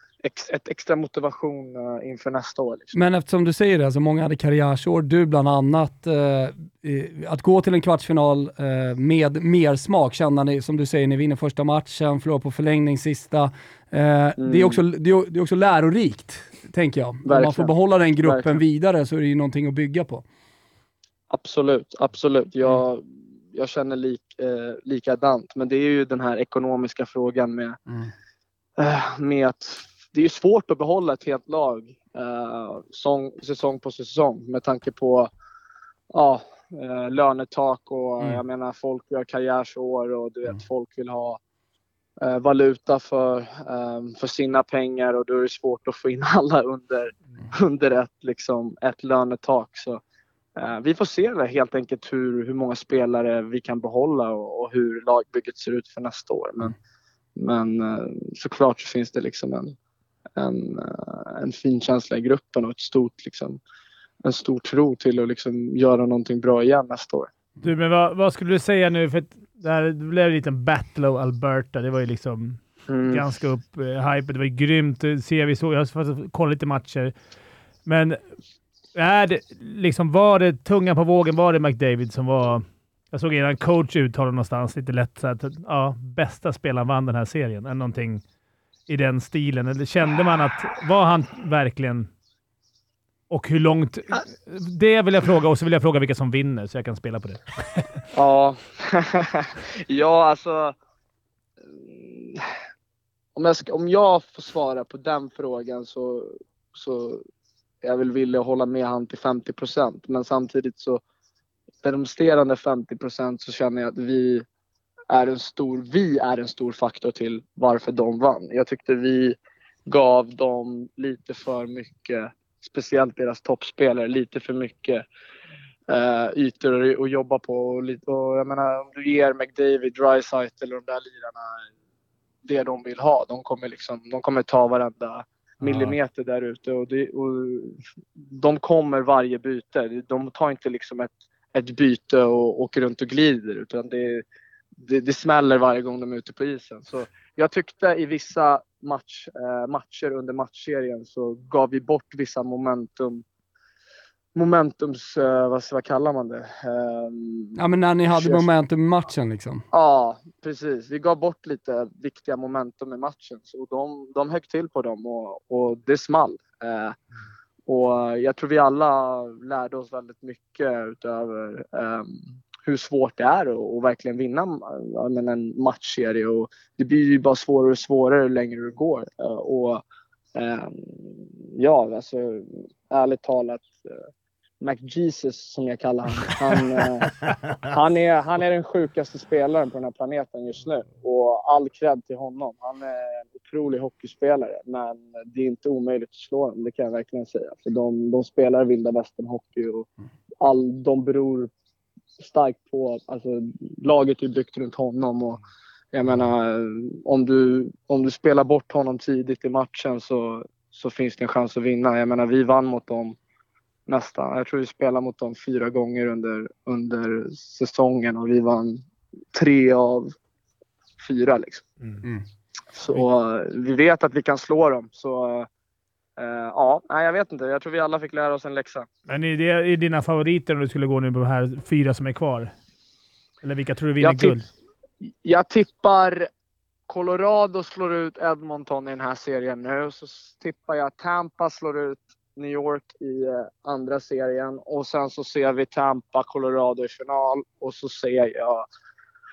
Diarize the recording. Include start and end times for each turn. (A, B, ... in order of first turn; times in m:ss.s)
0:00.2-0:02.9 A
0:02.9-0:20.2 B
0:14.4-0:14.8 A
0:17.2-0:18.6 A
0:21.3-0:27.8 A
0:28.8-0:35.3 A
0:36.1-0:41.4 A
0:42.2-0:50.0 A
0:50.6-0:56.7 A
0:57.4-0:59.7 A
1:00.4-1:03.6 A
1:04.2-1:07.3 A
1:07.6-1:17.1 C
1:12.9-1:13.2 A
1:17.8-1:18.2 C
1:18.9-1:28.2 C
1:28.9-1:32.1 C
1:33.3-1:37.8 C
1:38.1-1:40.8 A
1:41.7-1:42.4 A
1:43.4-1:47.2 A
1:47.8-1:51.0 A
1:51.8-1:54.4 A
1:55.1-2:05.0 A
2:05.9-2:11.6 A
2:12.4-2:24.2 A
2:15.6-2:16.0 C
2:24.8-2:33.2 A
2:34.3-2:37.6 A
2:37.6-2:39.6 B
2:38.1-2:38.5 A
2:39.7-2:47.0 A
2:47.7-2:59.8 A
3:00.3-3:03.9 A
3:04.6-3:19.9 A
3:20.4-3:21.5 A
3:22.2-3:25.4 A
3:25.9-3:33.2 A
3:33.9-3:38.8 A
3:39.3-3:40.1 A
3:41.0-3:41.6 A
3:42.7-3:45.5 A
3:46.2-3:48.9 A
3:49.1-3:52.5 C
3:53.4-3:54.5 C
3:54.0-3:54.4 A
3:55.2-3:56.3 A
3:56.9-4:08.6 A